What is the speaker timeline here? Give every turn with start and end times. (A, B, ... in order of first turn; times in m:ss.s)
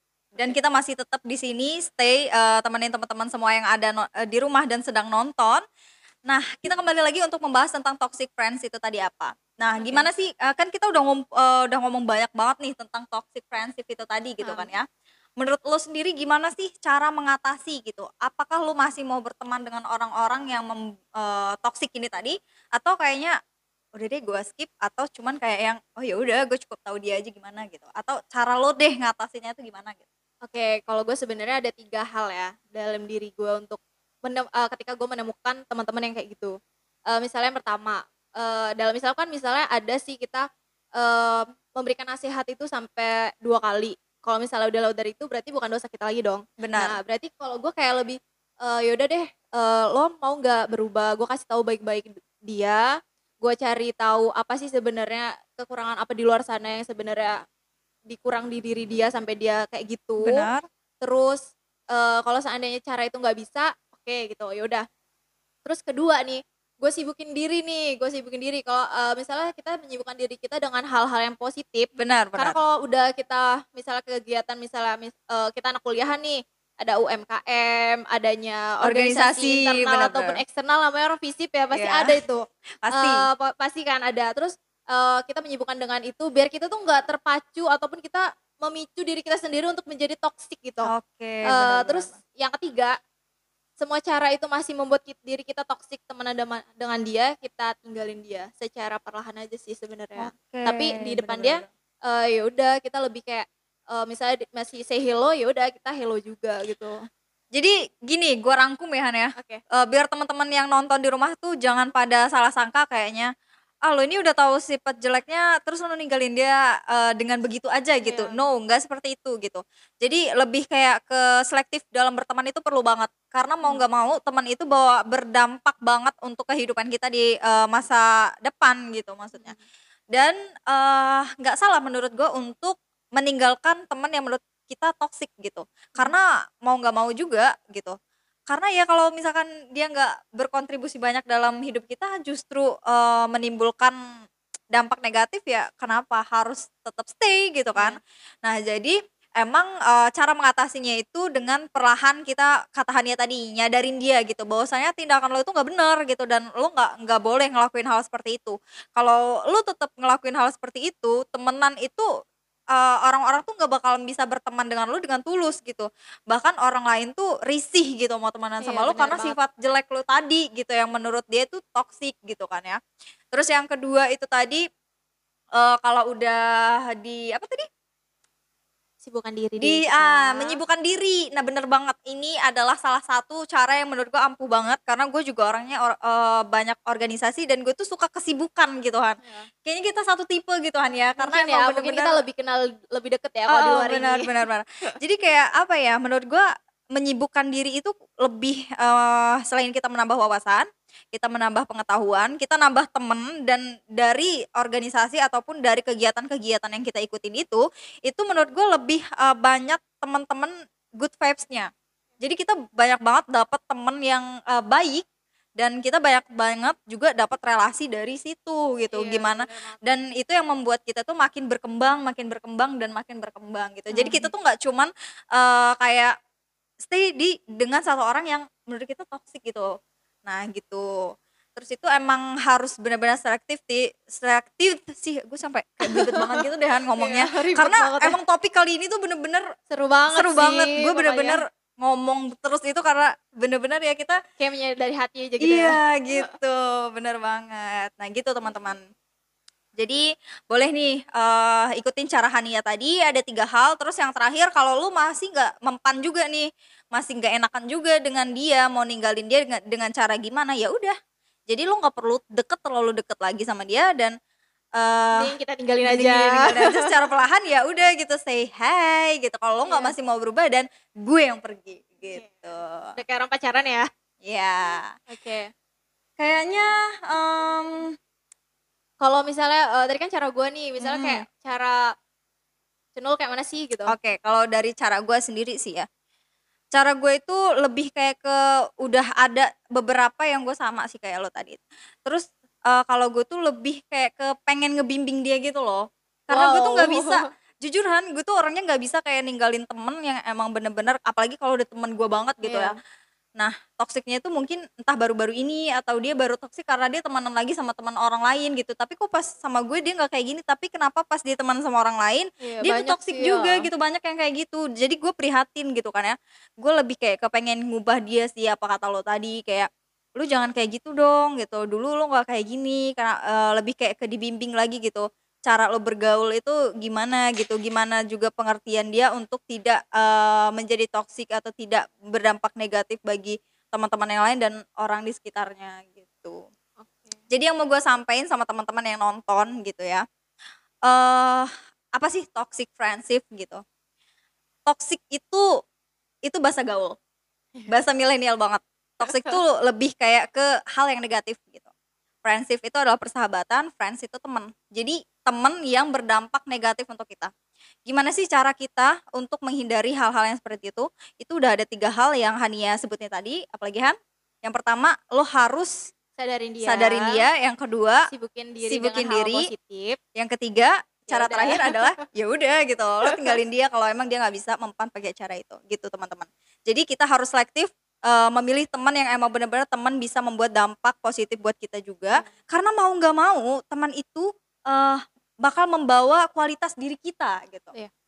0:00.3-0:05.6 A
0:06.3-0:14.8 A
0:09.8-0:10.1 B
0:14.4-0:14.7 B
0:15.4-0:23.3 A
0:24.0-0:30.0 A
0:30.4-0:36.5 B
0:37.1-0:40.5 B
0:41.0-0:52.9 B
0:46.6-0:47.0 A
0:53.4-0:57.4 B
0:58.1-1:00.5 B
1:00.2-1:00.6 A
1:01.0-1:04.8 B
1:05.6-1:30.9 B
1:12.0-1:12.6 A
1:18.8-1:20.4 A
1:21.7-1:22.1 A
1:22.8-1:23.2 A
1:30.8-1:32.2 A
1:31.5-1:32.9 B
1:33.8-1:47.0 B
1:40.2-1:41.7 A
1:47.6-1:53.3 A
1:49.4-1:49.6 B
1:53.9-2:09.6 A
1:58.0-1:58.4 B
2:10.1-2:18.0 A
2:18.5-2:24.0 A
2:24.7-2:42.1 A
2:42.7-2:52.8 A
2:48.6-2:49.4 B
2:53.3-2:54.6 A
2:55.6-2:57.7 A
2:59.0-3:00.6 B
2:59.6-3:12.2 A
3:11.2-3:14.3 B
3:13.5-3:16.4 A
3:17.0-3:31.7 A
3:32.2-3:35.0 A
3:35.6-3:46.1 A
3:38.9-3:39.8 B
3:43.9-3:44.3 B
3:46.8-3:49.7 A
3:50.2-3:50.8 A
3:51.6-3:59.5 A
3:55.9-3:56.4 B
3:56.9-3:58.2 B
3:59.7-4:01.4 B
4:00.1-4:04.2 A
4:04.4-4:06.3 B
4:05.4-4:08.8 A
4:09.8-4:21.0 A
4:21.5-4:24.1 A
4:24.8-4:25.3 A
4:25.2-4:26.9 B
4:25.8-4:33.0 A
4:29.7-4:30.0 B
4:32.1-4:33.9 B
4:34.2-4:34.9 A
4:35.1-4:35.5 B
4:36.2-4:37.8 A
4:39.0-4:41.8 B
4:40.8-4:41.2 A
4:43.0-4:43.9 B
4:43.9-4:45.9 A
4:46.7-5:02.8 A
4:56.3-4:57.3 B
5:02.4-5:02.7 B
5:03.4-5:36.4 A
5:12.4-5:13.6 B
5:36.8-5:37.2 B
5:37.3-5:40.0 A
5:40.9-5:43.6 A
5:44.7-5:45.4 A
5:46.3-5:47.0 A
5:47.7-5:51.7 A
5:52.2-5:57.3 A
5:57.9-6:05.8 A
6:06.2-6:07.2 B
6:06.6-6:08.0 A
6:08.1-6:10.0 B
6:08.6-6:09.5 A
6:10.2-6:27.7 A
6:11.1-6:11.9 B